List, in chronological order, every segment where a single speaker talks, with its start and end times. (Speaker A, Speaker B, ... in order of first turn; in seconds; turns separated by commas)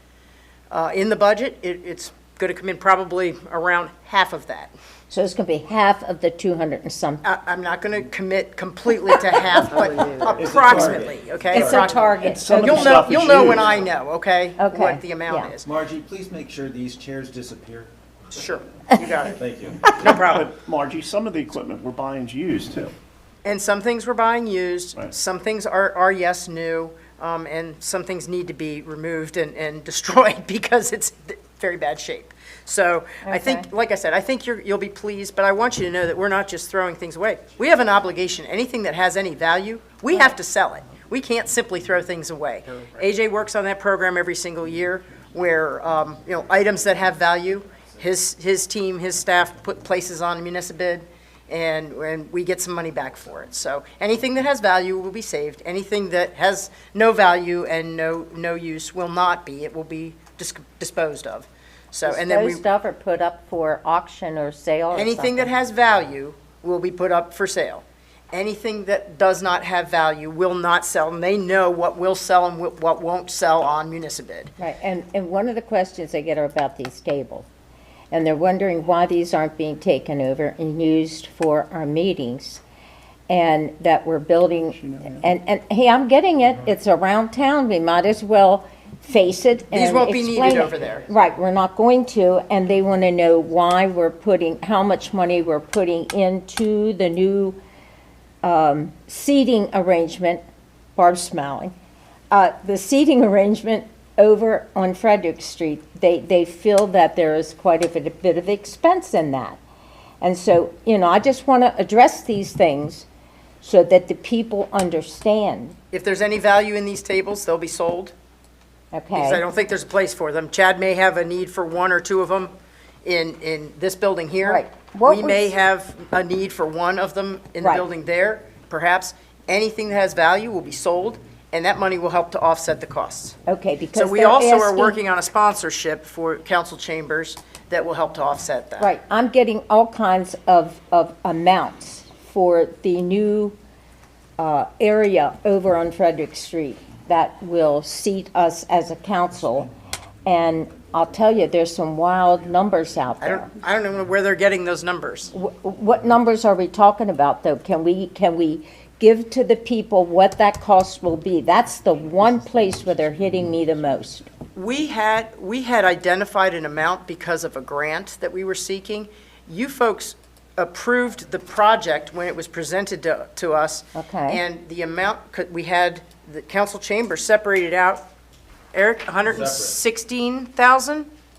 Speaker A: 0.7-4.7, Speaker B: 5.1-7.2, Speaker A: 7.2-15.7, Speaker C: 9.6-12.2, Speaker D: 10.4-10.9, Speaker B: 11.5-13.5, Speaker D: 12.2-13.8, Speaker B: 14.6-15.5, Speaker C: 15.7-19.9, Speaker A: 18.3-20.5, Speaker D: 19.9-22.9, Speaker A: 23.4-62.6, Speaker B: 33.2-33.7, Speaker B: 62.1-65.5, Speaker A: 64.9-74.5, Speaker B: 74.6-77.5, Speaker B: 78.1-82.6, Speaker B: 83.3-97.6, Speaker D: 84.8-85.3, Speaker A: 89.7-91.1, Speaker B: 98.4-100.4, Speaker B: 101.0-101.7, Speaker B: 102.3-109.6, Speaker B: 110.2-113.1, Speaker B: 113.6-115.8, Speaker A: 115.9-118.1, Speaker B: 118.9-119.4, Speaker A: 119.1-122.5, Speaker A: 123.0-133.4, Speaker B: 124.4-125.5, Speaker B: 127.6-127.9, Speaker B: 133.5-135.0, Speaker A: 133.9-138.9, Speaker B: 138.8-143.6, Speaker B: 144.4-149.7, Speaker B: 150.2-153.5, Speaker A: 153.2-155.3, Speaker B: 155.3-164.3, Speaker A: 164.5-178.1, Speaker B: 174.0-174.4, Speaker A: 178.7-181.1, Speaker C: 179.3-179.8